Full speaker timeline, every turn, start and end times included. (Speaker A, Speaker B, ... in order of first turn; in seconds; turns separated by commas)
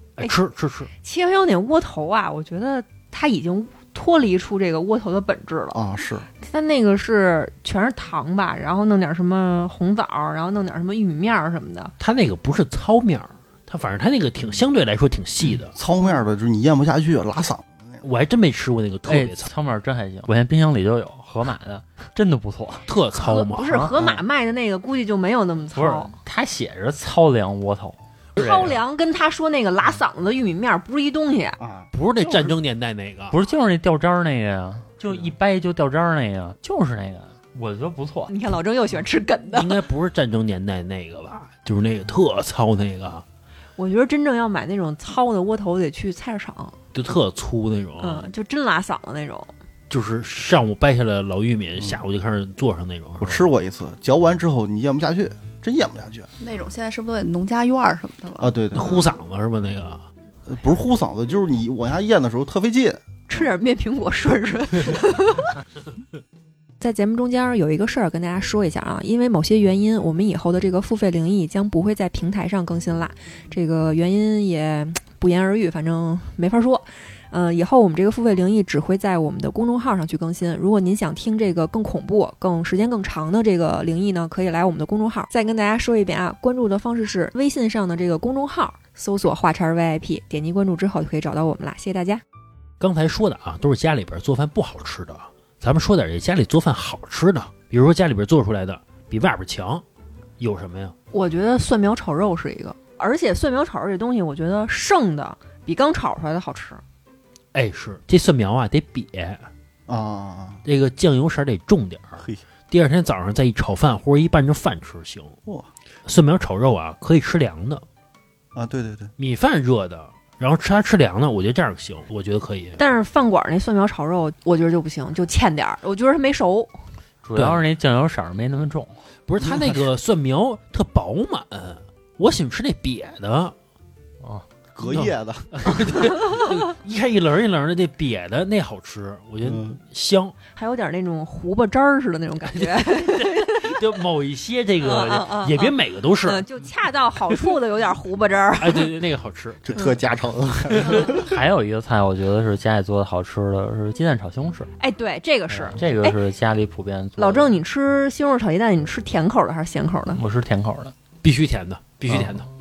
Speaker A: 0.2-0.9, Speaker B: 1.0-5.8, Speaker C: 5.7-6.3, Speaker B: 6.4-11.9, Speaker A: 12.0-15.7, Speaker C: 15.8-18.0, Speaker A: 18.0-19.5, Speaker D: 19.1-22.8, Speaker A: 22.9-24.2, Speaker B: 23.1-26.1, Speaker D: 23.7-23.9, Speaker D: 25.8-28.8, Speaker B: 28.4-31.6, Speaker C: 31.6-32.5, Speaker A: 31.9-33.4, Speaker D: 33.3-38.3, Speaker B: 38.3-39.8, Speaker A: 39.5-43.2, Speaker B: 43.8-46.8, Speaker A: 46.9-48.3, Speaker B: 48.0-49.5, Speaker A: 49.9-53.5, Speaker C: 53.2-56.3, Speaker E: 56.4-58.5, Speaker C: 58.4-58.9, Speaker A: 58.7-60.0, Speaker C: 60.5-63.5, Speaker B: 63.3-65.5, Speaker B: 66.8-92.2, Speaker A: 92.8-99.8, Speaker A: 100.4-101.0, Speaker B: 101.1-106.8, Speaker A: 107.5-109.5, Speaker C: 109.9-110.6, Speaker A: 110.7-115.4, Speaker A: 116.1-117.8, Speaker C: 118.5-119.1, Speaker A: 119.2-122.8, Speaker B: 122.8-126.8, Speaker D: 127.2-128.9, Speaker A: 127.4-127.6, Speaker A: 129.3-133.5, Speaker C: 129.5-129.7, Speaker C: 134.8-136.2, Speaker A: 134.9-140.3, Speaker C: 139.4-139.8, Speaker B: 140.6-143.8, Speaker A: 142.4-146.5, Speaker B: 144.8-148.9, Speaker A: 148.6-149.7, Speaker C: 149.7-151.3, Speaker B: 150.8-151.2, Speaker D: 151.2-154.7, Speaker B: 154.8-156.2, Speaker D: 155.5-157.6, Speaker B: 157.2-160.2, Speaker D: 160.2-160.9, Speaker A: 161.2-162.5